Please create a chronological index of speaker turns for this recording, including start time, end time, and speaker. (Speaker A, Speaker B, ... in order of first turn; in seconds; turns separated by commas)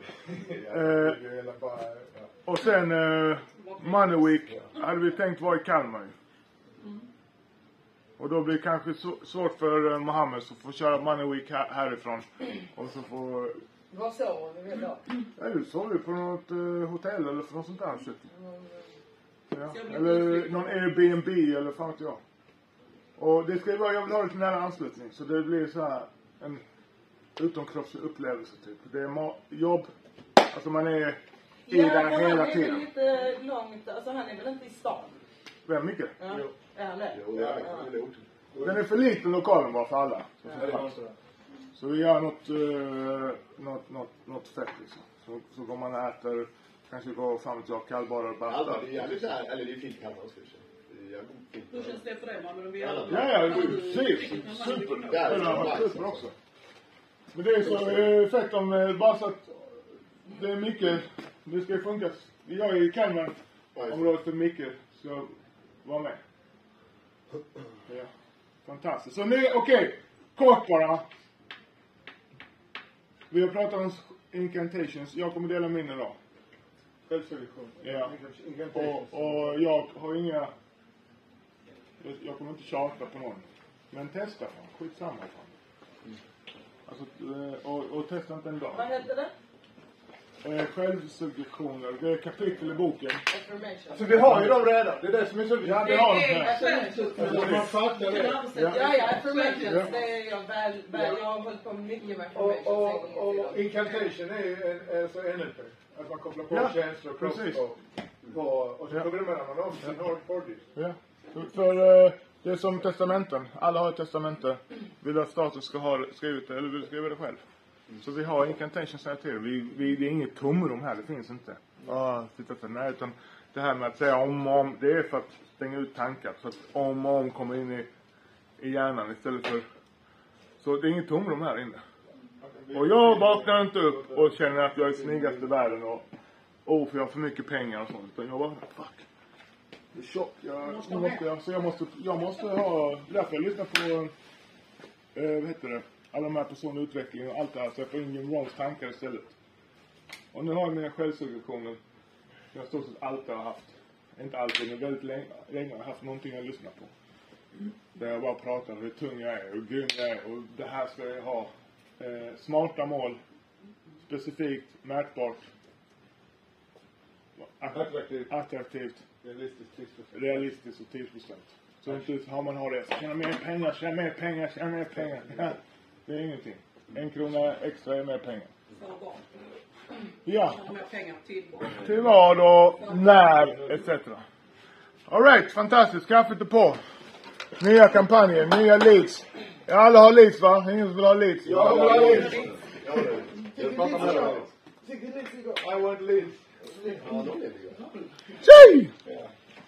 Speaker A: 0.3-2.3, Speaker B: 0.7-1.2, Speaker B: 2.5-6.1, Speaker C: 3.6-4.3, Speaker B: 8.2-13.6, Speaker D: 13.9-15.0, Speaker B: 15.4-18.3, Speaker D: 18.3-18.9, Speaker B: 19.5-22.2, Speaker C: 19.7-21.1, Speaker B: 23.2-26.6, Speaker B: 27.4-32.9, Speaker D: 31.7-35.2, Speaker B: 35.7-36.2, Speaker D: 36.2-37.8, Speaker A: 36.3-36.5, Speaker E: 37.1-38.2, Speaker A: 37.3-37.8, Speaker A: 38.5-38.9, Speaker B: 38.6-40.9, Speaker A: 40.5-41.1, Speaker B: 41.8-49.3, Speaker E: 48.5-52.0, Speaker C: 51.7-55.8, Speaker E: 52.8-54.2, Speaker B: 53.1-56.4, Speaker E: 55.0-56.3, Speaker B: 57.3-66.2, Speaker E: 57.6-58.1, Speaker E: 63.7-64.1, Speaker B: 68.7-71.1, Speaker B: 73.3-76.2, Speaker A: 77.1-79.6, Speaker B: 77.8-78.1, Speaker B: 78.7-80.5, Speaker B: 82.0-85.5, Speaker B: 86.9-89.0, Speaker D: 88.7-89.3, Speaker B: 90.4-93.2, Speaker D: 93.3-94.5, Speaker A: 93.9-96.2, Speaker B: 95.6-96.6, Speaker C: 95.8-100.1, Speaker D: 96.1-97.6, Speaker A: 97.2-98.5, Speaker B: 97.2-97.8, Speaker B: 98.5-98.8, Speaker D: 98.5-103.7, Speaker B: 99.6-99.9, Speaker A: 100.9-101.2, Speaker A: 102.3-110.6, Speaker B: 106.5-107.7, Speaker B: 110.8-117.4, Speaker B: 118.0-127.9, Speaker B: 128.6-129.7, Speaker B: 130.6-131.8, Speaker A: 132.4-134.4, Speaker B: 132.7-136.1, Speaker A: 134.9-135.4, Speaker B: 136.7-139.0, Speaker B: 139.9-144.1, Speaker C: 140.6-141.2, Speaker B: 145.2-149.3, Speaker B: 150.3-151.8, Speaker B: 152.5-156.9, Speaker B: 157.9-163.2, Speaker B: 164.1-165.4, Speaker B: 167.4-169.0, Speaker A: 167.7-168.3, Speaker A: 169.2-170.4, Speaker B: 170.1-178.5, Speaker C: 178.7-179.2, Speaker B: 180.2-180.6, Speaker C: 180.3-182.0, Speaker B: 181.8-184.2, Speaker C: 182.8-183.3, Speaker B: 185.1-186.8, Speaker B: 187.6-192.3, Speaker E: 191.4-194.5, Speaker A: 191.4-197.1, Speaker C: 192.1-192.5, Speaker D: 193.8-194.1, Speaker E: 196.9-197.9, Speaker B: 198.4-198.9